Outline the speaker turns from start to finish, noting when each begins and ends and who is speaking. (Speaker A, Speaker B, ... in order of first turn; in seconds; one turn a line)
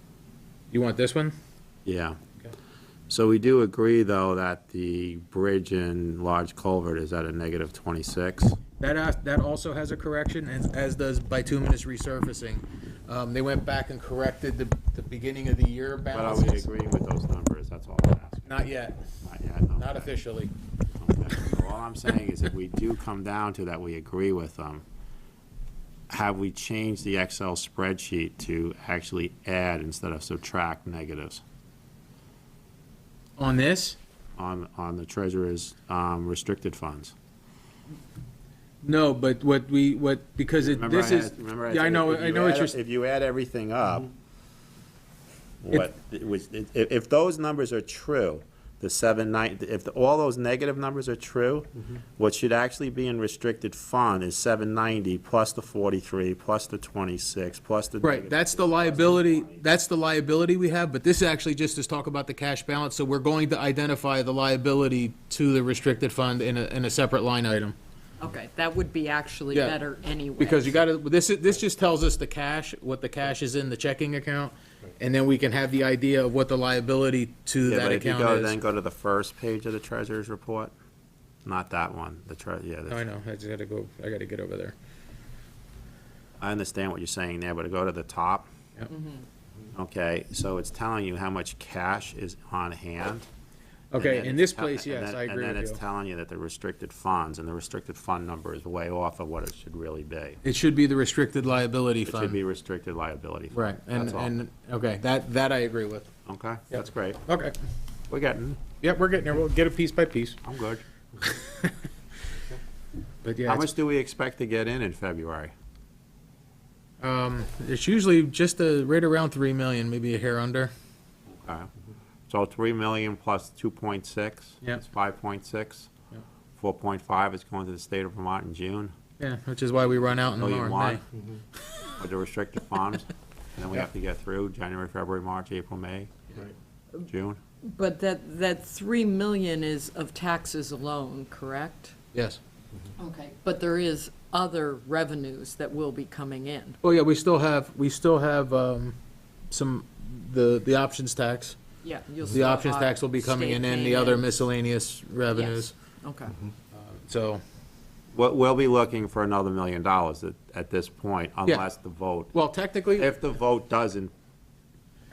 Speaker A: 0.7-1.4
Speaker B: 1.9-2.2
Speaker B: 3.1-8.6
Speaker A: 8.8-16.7
Speaker B: 16.1-18.6
Speaker A: 18.5-19.0
Speaker B: 19.2-20.1
Speaker A: 19.7-20.5
Speaker B: 21.0-24.9
Speaker B: 26.1-31.4
Speaker A: 33.4-34.0
Speaker B: 34.4-37.1
Speaker A: 38.8-42.8
Speaker B: 40.6-44.1
Speaker B: 45.6-59.7
Speaker A: 58.0-67.8
Speaker C: 68.2-70.8
Speaker A: 69.5-69.8
Speaker A: 70.4-78.6
Speaker B: 77.7-80.7
Speaker B: 81.5-83.0
Speaker A: 82.9-84.8
Speaker B: 86.4-88.5
Speaker C: 88.9-89.3
Speaker B: 89.7-93.3
Speaker A: 93.9-95.8
Speaker B: 93.9-100.4
Speaker A: 100.4-102.4
Speaker B: 102.1-104.3
Speaker A: 103.5-106.1
Speaker B: 106.3-107.2
Speaker A: 106.7-107.5
Speaker B: 108.1-108.6
Speaker A: 108.8-110.4
Speaker B: 110.4-110.8
Speaker A: 111.2-111.7
Speaker A: 113.2-113.7
Speaker B: 113.5-115.5
Speaker A: 117.0-120.7
Speaker B: 121.4-121.7
Speaker B: 122.3-125.9
Speaker B: 126.6-128.9
Speaker A: 129.2-131.0
Speaker B: 130.4-131.0
Speaker B: 132.0-136.1
Speaker B: 137.1-137.4
Speaker C: 137.6-141.9
Speaker A: 142.1-142.4
Speaker C: 143.0-146.8
Speaker A: 146.8-148.9
Speaker A: 149.5-151.6
Speaker C: 151.8-154.4
Speaker A: 152.3-155.7
Speaker C: 155.3-156.4
Speaker A: 156.8-157.4
Speaker B: 158.1-162.3
Speaker A: 162.3-163.1
Speaker B: 162.9-164.1